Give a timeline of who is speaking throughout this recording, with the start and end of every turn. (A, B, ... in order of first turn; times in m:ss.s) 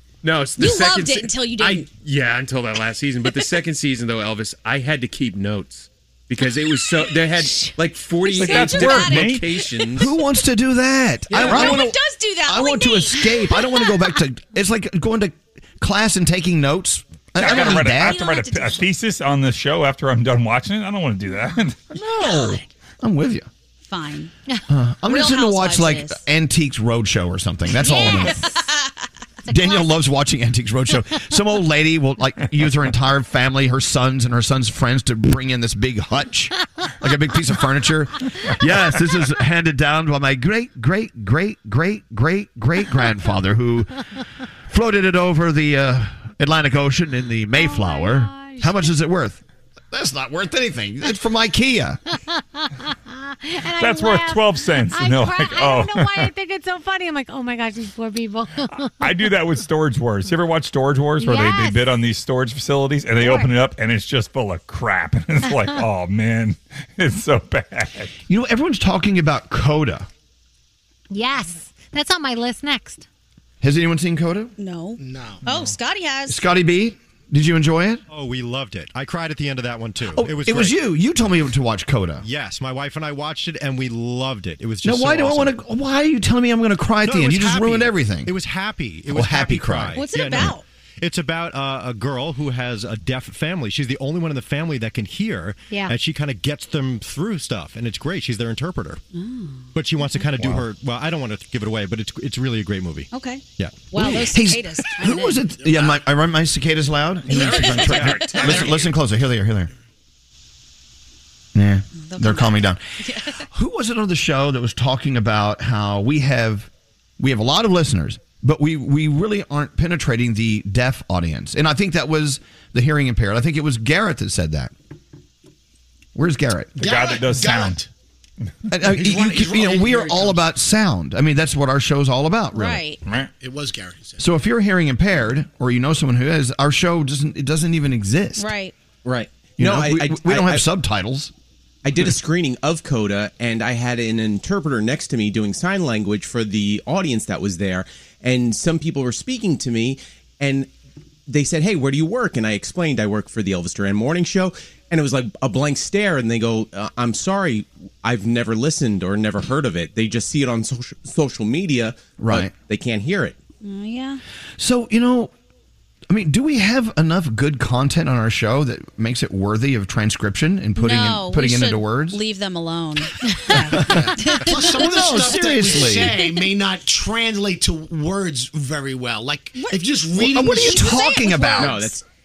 0:00.2-0:10.1 A
0:00.6-0:01.9 B
0:08.2-0:09.5 C
0:08.3-0:09.5 B
0:09.9-0:18.2 D
0:11.3-0:11.8 A
0:11.3-0:13.9 B
0:17.4-0:21.9 C
0:17.4-0:18.8 B
0:22.0-0:23.5 D
0:23.8-0:24.3 B
0:24.7-0:28.4 D
0:25.1-0:26.2 B
0:27.8-0:28.6 E
0:27.8-0:28.8 B
0:29.4-0:29.9 E
0:29.5-0:44.0 D
0:44.7-0:52.0 D
0:47.5-0:48.9 E
0:52.6-0:59.3 E
0:53.8-0:56.3 C
0:59.0-1:08.1 C
1:01.2-1:01.8 E
1:03.2-1:03.5 E
1:08.3-1:10.1 D
1:11.1-1:13.0 E
1:13.6-1:14.5 D
1:14.6-1:16.4 B
1:15.0-1:15.4 F
1:16.3-1:18.0 D
1:18.1-1:20.8 G
1:20.1-1:22.2 D
1:22.2-1:25.6 G
1:24.8-1:28.3 D
1:27.0-1:39.0 G
1:29.1-1:30.0 D
1:29.9-1:30.6 B
1:35.7-1:35.9 E
1:39.1-1:39.7 B
1:39.7-1:44.1 G
1:40.4-1:40.6 D
1:43.1-1:45.4 B
1:43.9-1:49.7 D
1:47.3-1:48.6 B
1:47.4-1:48.8 A
1:47.8-1:48.7 G
1:51.5-1:52.8 D
1:52.0-1:53.4 B
1:53.4-2:04.7 D
2:06.1-2:06.8 D
2:06.8-2:07.8 C
2:06.8-2:07.8 F
2:08.7-2:12.8 D
2:08.8-2:10.4 F
2:12.5-2:13.0 B
2:13.4-2:14.2 F
2:14.2-2:18.5 D
2:18.4-2:18.7 B
2:19.0-2:20.6 H
2:19.6-2:21.3 D
2:21.8-2:30.7 H
2:31.3-2:43.3 H
2:42.2-2:42.5 D
2:43.6-2:44.2 B
2:44.6-2:45.3 D
2:46.1-2:52.2 D
2:50.8-2:56.3 B
2:53.7-2:54.1 D
2:54.3-3:01.0 F
2:54.7-2:56.2 D
2:59.6-3:02.0 B
3:00.1-3:01.9 D
3:01.6-3:01.9 A